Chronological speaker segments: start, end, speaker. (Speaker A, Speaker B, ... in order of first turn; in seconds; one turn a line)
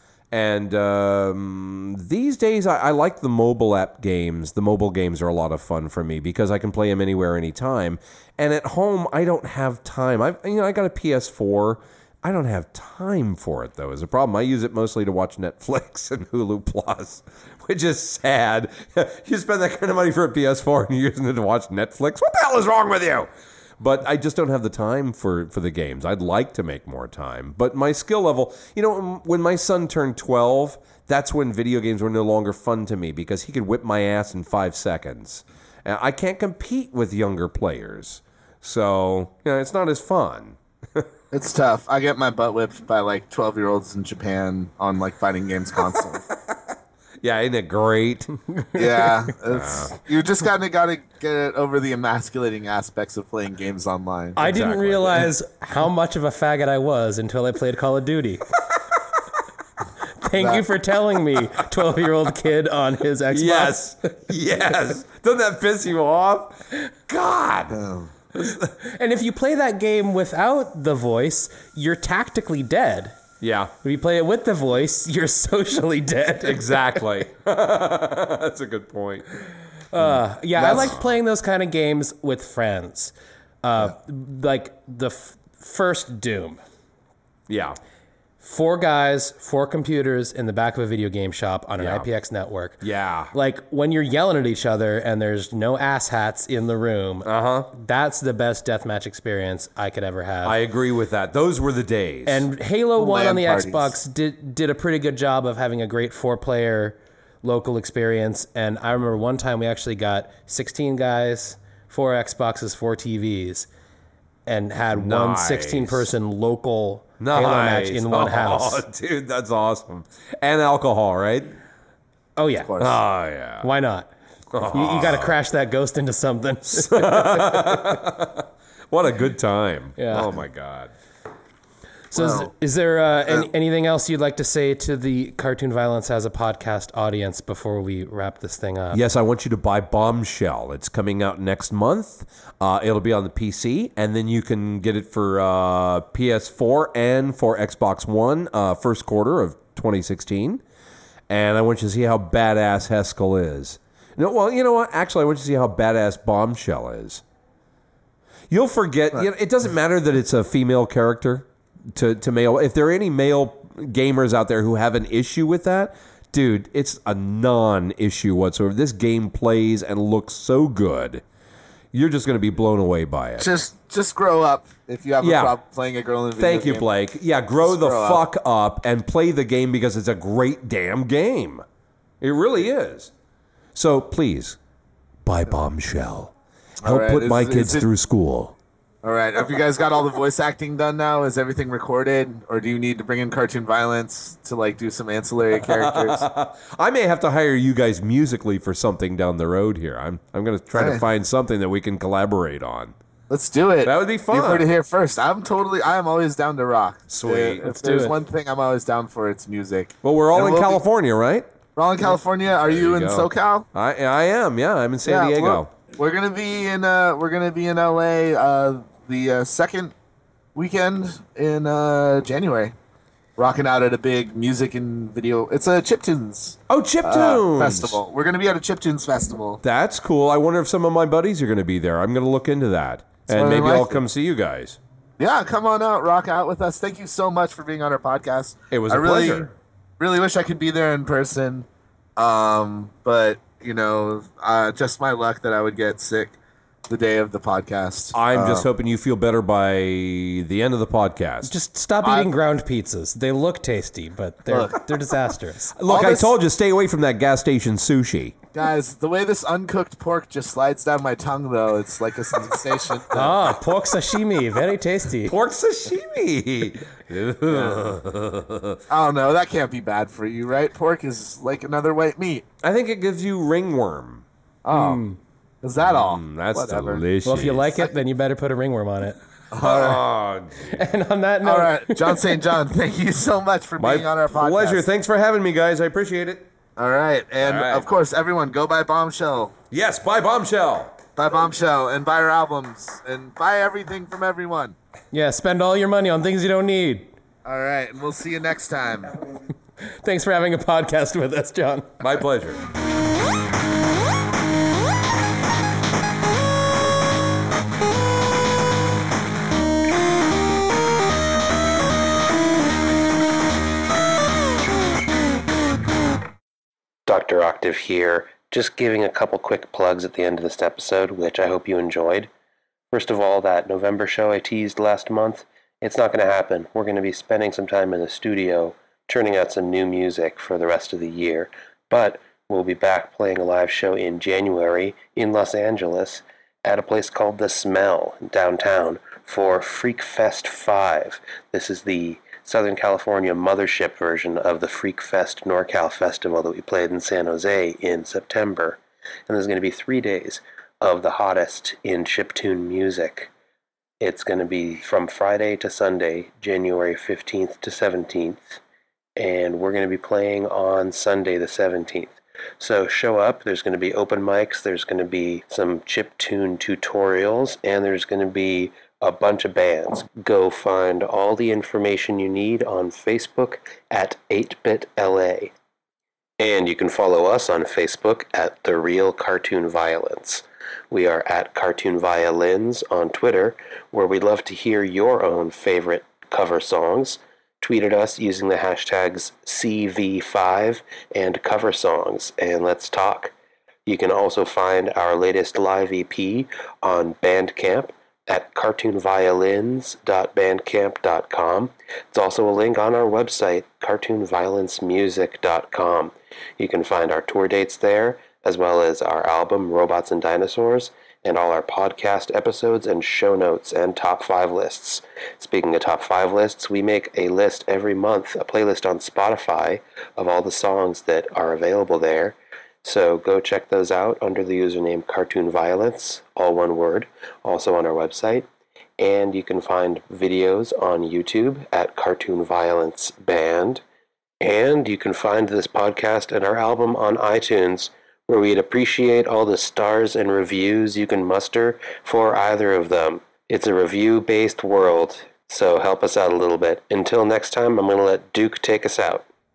Speaker A: 0.3-23.3
Speaker A: 23.8-41.1
Speaker B: 41.3-46.2
Speaker A: 47.2-48.3
Speaker C: 48.5-49.3
Speaker B: 48.7-54.4
Speaker A: 49.5-49.9
Speaker A: 54.4-55.3
Speaker C: 54.4-58.4
Speaker C: 60.2-64.1
Speaker B: 60.4-60.6
Speaker A: 63.3-67.8
Speaker B: 67.7-68.1
Speaker A: 68.3-68.7
Speaker C: 68.8-73.2
Speaker A: 73.4-73.7
Speaker C: 73.8-77.0
Speaker A: 76.4-79.3
Speaker C: 79.9-86.6
Speaker A: 80.0-81.2
Speaker B: 80.6-80.9
Speaker A: 87.5-87.8
Speaker C: 88.4-92.8
Speaker A: 91.8-92.1
Speaker A: 92.8-93.3
Speaker C: 93.3-100.6
Speaker A: 97.2-97.7
Speaker A: 100.4-102.5
Speaker C: 102.2-113.7
Speaker B: 103.0-104.0
Speaker C: 114.5-118.8
Speaker A: 114.9-116.1
Speaker A: 117.2-121.6
Speaker C: 122.3-122.8
Speaker B: 122.6-123.0
Speaker A: 122.8-123.7
Speaker C: 123.6-124.1
Speaker A: 124.5-125.3
Speaker C: 124.7-128.0
Speaker A: 126.7-130.9
Speaker C: 130.0-130.3
Speaker C: 132.1-139.0
Speaker B: 132.1-132.5
Speaker A: 138.9-150.6
Speaker A: 151.3-157.2
Speaker A: 158.5-171.2
Speaker A: 171.9-173.5
Speaker B: 173.4-176.9
Speaker A: 175.2-175.6
Speaker A: 176.4-181.6
Speaker B: 177.6-178.2
Speaker A: 182.2-183.1
Speaker A: 183.7-184.6
Speaker A: 185.2-188.5
Speaker B: 186.8-187.9
Speaker B: 189.0-196.2
Speaker A: 195.6-202.9
Speaker B: 200.7-201.0
Speaker B: 203.3-210.8
Speaker A: 203.8-204.7
Speaker A: 207.1-208.0
Speaker C: 207.6-208.1
Speaker A: 210.0-211.5
Speaker B: 211.8-213.7
Speaker A: 212.6-215.7
Speaker B: 215.0-219.9
Speaker B: 220.5-222.7
Speaker B: 223.4-229.6
Speaker A: 226.7-228.0
Speaker A: 229.6-234.8
Speaker B: 233.3-234.0
Speaker B: 235.2-246.4
Speaker A: 238.7-239.5
Speaker B: 246.9-248.7
Speaker A: 248.1-251.5
Speaker C: 251.4-255.7
Speaker B: 252.0-252.3
Speaker B: 254.5-254.8
Speaker A: 255.7-258.3
Speaker B: 255.9-256.3
Speaker B: 258.5-263.4
Speaker C: 263.1-265.3
Speaker A: 265.2-268.8
Speaker B: 267.5-267.9
Speaker B: 268.9-272.4
Speaker A: 272.6-274.2
Speaker B: 274.6-275.0
Speaker C: 274.7-275.2
Speaker B: 275.6-277.0
Speaker A: 275.8-277.8
Speaker C: 277.2-279.2
Speaker B: 279.5-280.0
Speaker A: 279.6-280.9
Speaker C: 280.7-282.4
Speaker B: 281.4-284.9
Speaker A: 283.8-286.5
Speaker B: 286.8-289.5
Speaker A: 287.4-287.9
Speaker A: 289.7-290.9
Speaker B: 291.2-294.8
Speaker C: 295.1-297.1
Speaker B: 297.4-299.1
Speaker C: 299.8-302.0
Speaker A: 302.0-302.6
Speaker D: 317.1-322.3
Speaker D: 322.9-353.3
Speaker D: 354.0-358.6
Speaker D: 359.1-375.5
Speaker D: 376.4-393.3
Speaker D: 393.9-428.5
Speaker D: 429.0-433.8
Speaker D: 434.4-449.2